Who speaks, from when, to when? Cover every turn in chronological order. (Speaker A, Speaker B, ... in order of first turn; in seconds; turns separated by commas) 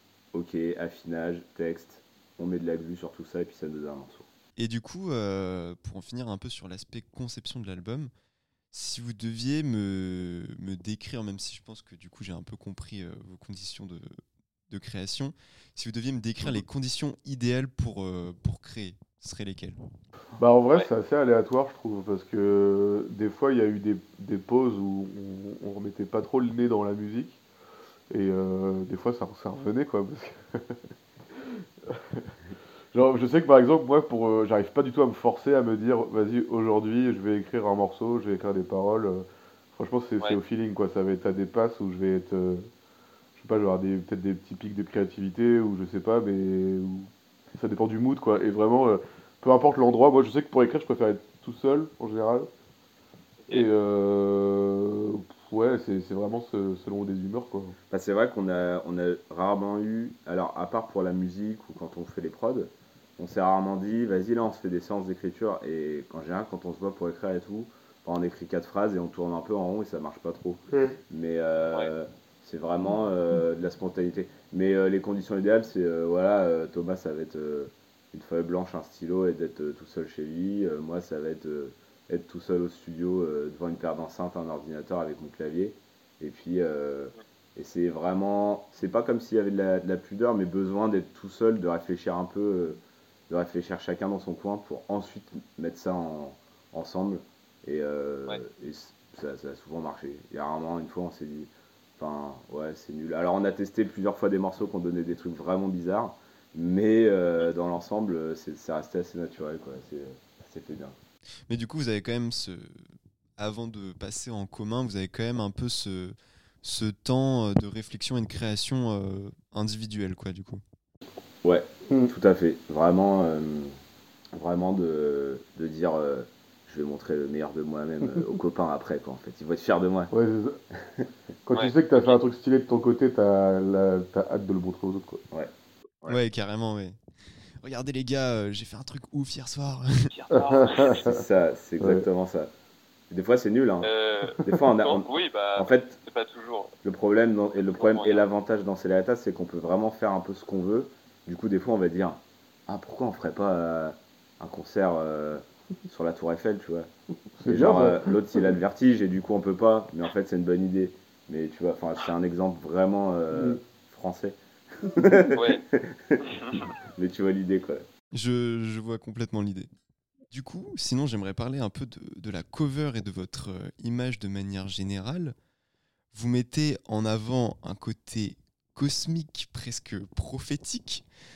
Speaker A: 0.3-4.3, Speaker B: 4.6-8.1, Speaker B: 8.7-19.8, Speaker C: 20.4-27.4, Speaker C: 28.1-30.8, Speaker C: 31.9-32.3, Speaker C: 32.9-42.7, Speaker C: 43.4-52.5, Speaker C: 53.5-57.8, Speaker A: 57.9-111.0, Speaker C: 70.7-71.0, Speaker B: 111.5-120.6, Speaker A: 121.4-123.8, Speaker A: 124.3-130.1, Speaker C: 130.1-130.6, Speaker C: 131.4-135.2, Speaker D: 131.5-132.2, Speaker A: 135.3-136.1, Speaker B: 136.1-137.0, Speaker B: 137.6-140.1, Speaker D: 140.1-141.0, Speaker C: 140.3-141.2, Speaker A: 141.0-142.5, Speaker A: 143.1-146.0, Speaker D: 143.8-146.7, Speaker A: 146.8-156.9, Speaker D: 147.6-148.3, Speaker C: 157.4-158.1, Speaker A: 157.4-166.2, Speaker D: 165.3-165.6, Speaker D: 166.2-166.7, Speaker A: 167.0-167.9, Speaker B: 168.1-169.7, Speaker B: 170.3-175.3, Speaker B: 176.1-181.0